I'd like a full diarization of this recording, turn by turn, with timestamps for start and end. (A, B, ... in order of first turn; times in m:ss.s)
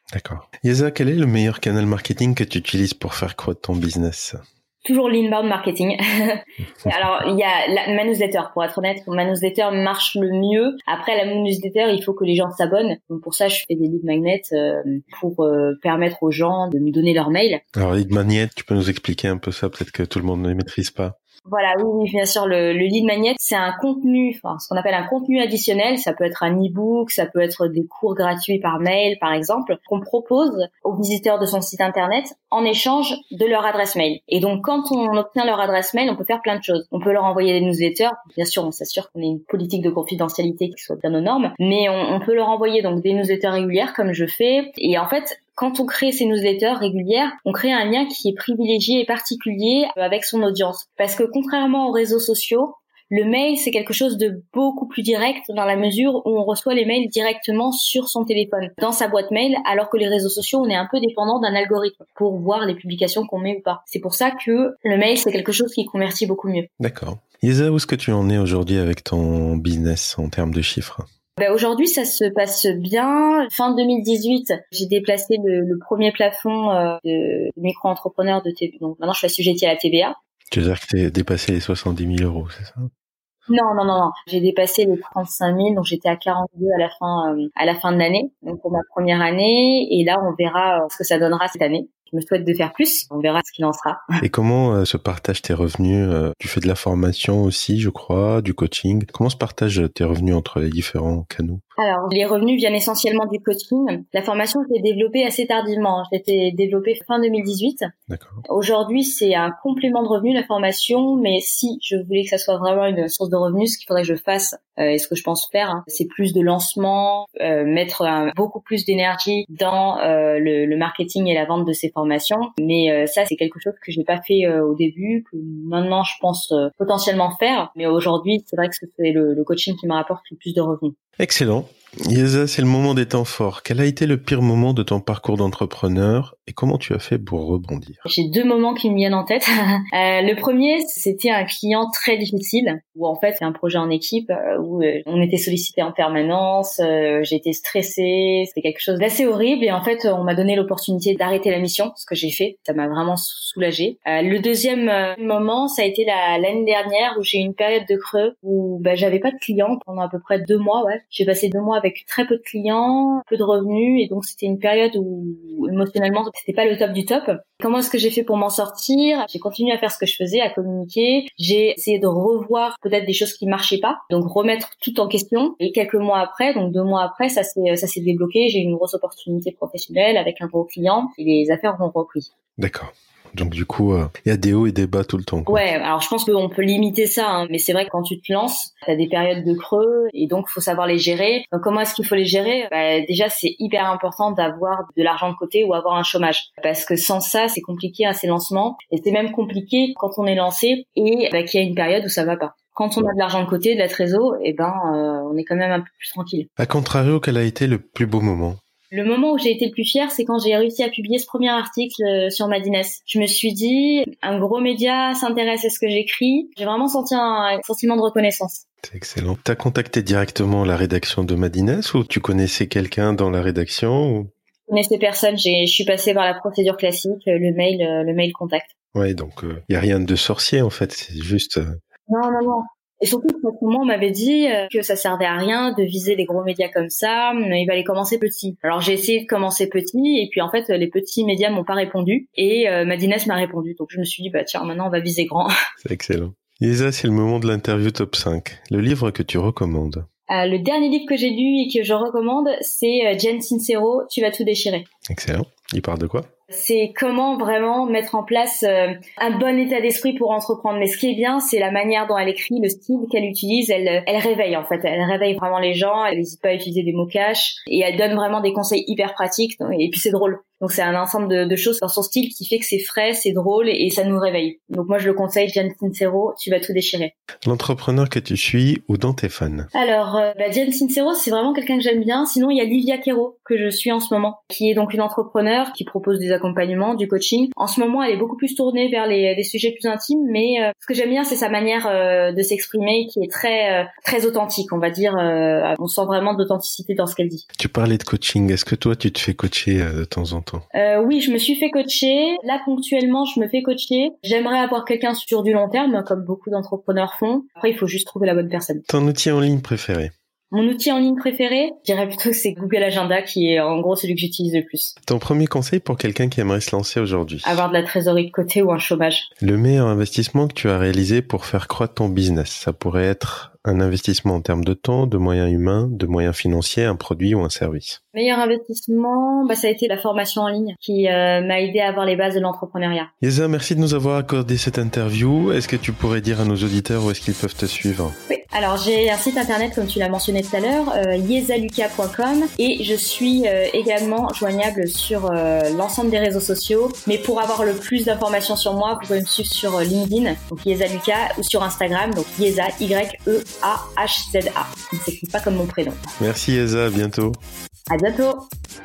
0:00.1-0:04.4 A
0:04.8-0:17.6 B
0:17.8-0:21.2 A
0:21.5-1:06.7 B
1:06.8-1:11.0 A
1:11.4-1:20.2 B
1:20.5-1:22.9 A
1:23.5-1:34.0 B
1:34.2-1:41.6 A
1:41.8-1:47.9 B
1:48.1-1:48.4 A
1:48.5-2:11.0 B
2:11.2-2:18.1 A
2:18.1-3:02.3 B
3:02.6-3:05.6 A
3:05.5-3:26.5 B
3:26.6-3:28.6 A
3:28.9-3:38.6 B
3:38.8-3:44.3 A
3:44.7-3:48.7 B
3:49.0-3:51.6 A
3:52.1-4:05.5 B
4:05.8-4:10.1 A
4:10.3-4:14.9 B
4:15.1-4:16.3 A
4:16.5-4:37.1 B
4:37.5-4:39.7 A
4:39.7-4:57.4 B
4:57.6-5:00.6 A
5:00.8-5:08.8 B
5:08.9-5:10.1 A
5:10.5-5:14.9 B
5:15.1-5:17.6 A
5:17.4-5:19.3 B
5:19.4-5:28.0 A
5:28.1-5:33.1 B
5:33.2-5:38.2 A
5:38.3-5:56.0 B
5:56.2-5:57.4 A
5:57.9-5:58.5 B